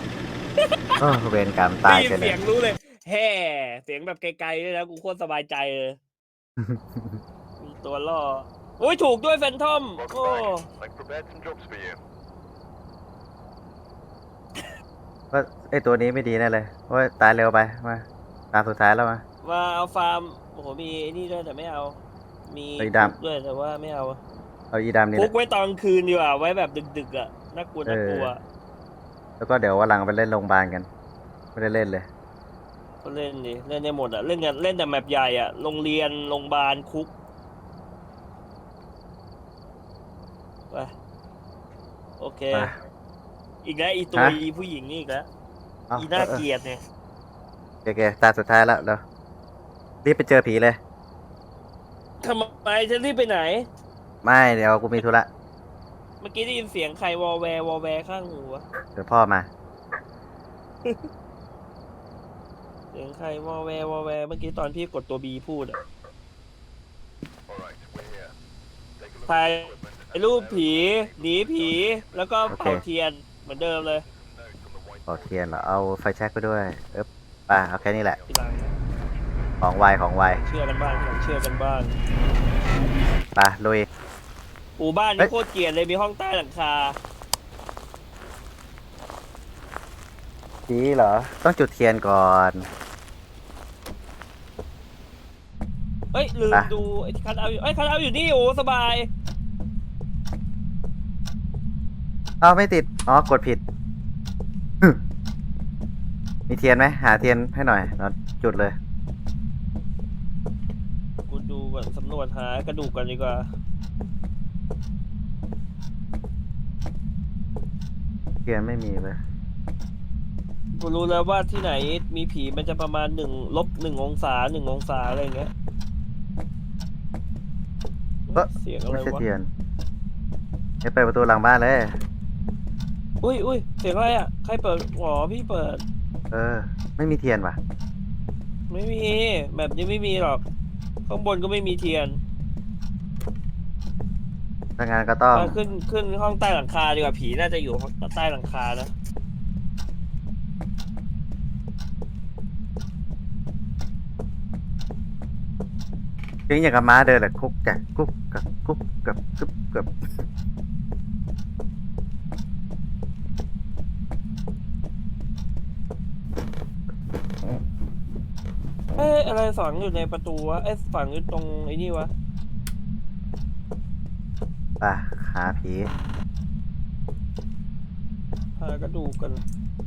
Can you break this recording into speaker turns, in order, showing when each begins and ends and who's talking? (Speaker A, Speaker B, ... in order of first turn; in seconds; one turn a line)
Speaker A: 0.6-0.9
Speaker B: 1.0-2.4
Speaker A: 1.8-6.0
Speaker B: 6.6-7.2
Speaker A: 7.6-10.7
Speaker C: 10.7-12.0
Speaker B: 15.3-19.2
Speaker A: 19.4-24.2
Speaker B: 22.8-23.1
Speaker B: 24.7-25.3
Speaker A: 25.1-28.4
Speaker B: 27.9-28.3
Speaker B: 29.4-30.9
Speaker B: 31.6-32.0
Speaker A: 33.0-37.1
Speaker A: 42.2-42.7
Speaker A: 43.6-45.3
Speaker B: 44.1-44.4
Speaker B: 45.9-46.4
Speaker A: 46.0-46.8
Speaker B: 47.8-49.0
Speaker B: 50.0-50.8
Speaker A: 52.2-53.6
Speaker B: 54.2-55.3
Speaker A: 56.2-58.6
Speaker B: 58.9-59.5
Speaker A: 62.9-65.8
Speaker C: 67.5-68.3
Speaker C: 69.0-70.1
Speaker A: 69.2-74.0
Speaker B: 72.5-72.8
Speaker C: 74.2-75.1
Speaker B: 75.1-78.2
Speaker A: 78.3-78.7
Speaker B: 79.6-80.4
Speaker A: 80.3-82.0
Speaker B: 83.3-83.9
Speaker A: 84.8-87.0
Speaker B: 90.7-92.7
Speaker A: 96.1-99.1
Speaker B: 102.4-103.6
Speaker B: 106.5-108.8
Speaker A: 111.3-113.4
Speaker B: 118.5-119.2
Speaker A: 120.7-125.5
Speaker A: 128.3-129.2
Speaker B: 128.3-129.5
Speaker B: 130.8-131.9
Speaker A: 133.2-135.8
Speaker B: 136.3-137.6
Speaker A: 138.7-140.4
Speaker A: 141.1-142.2
Speaker B: 144.8-145.6
Speaker A: 145.3-148.9
Speaker B: 156.5-159.9
Speaker A: 169.0-172.1
Speaker B: 174.8-175.9
Speaker A: 178.6-179.4